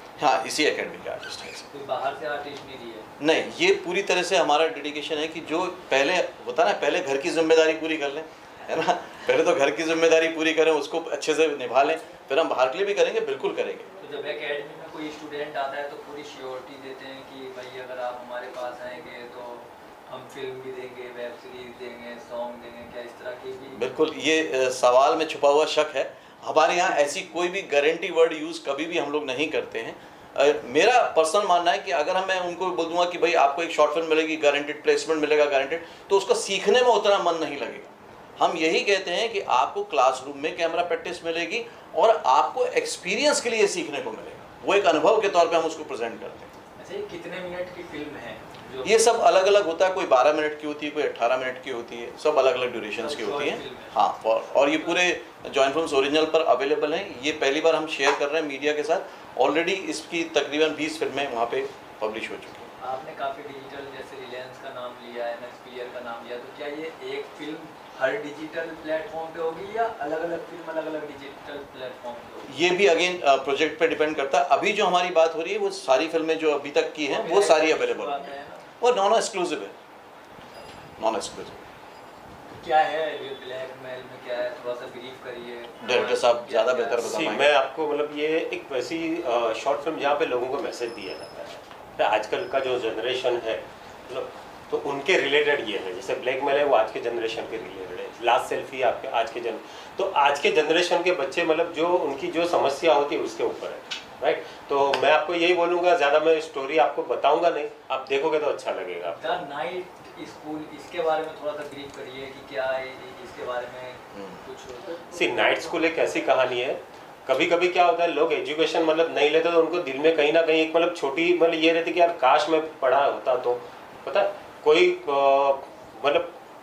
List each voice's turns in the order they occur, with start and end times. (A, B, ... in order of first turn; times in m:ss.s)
0:00.2-0:01.7 A
0:01.7-0:03.1 B
0:03.2-0:13.9 A
0:14.0-0:23.8 B
0:23.7-0:46.5 A
0:46.8-0:49.0 B
0:48.8-1:02.7 A
0:53.0-0:54.0 B
0:54.7-0:55.0 B
1:02.8-1:12.5 B
1:12.4-1:19.7 A
1:17.1-1:18.6 B
1:21.0-1:21.6 A
1:22.5-1:27.0 B
1:25.8-1:27.5 A
1:27.0-1:49.4 C
1:49.1-1:55.9 B
1:54.1-1:54.4 A
1:55.1-2:06.3 C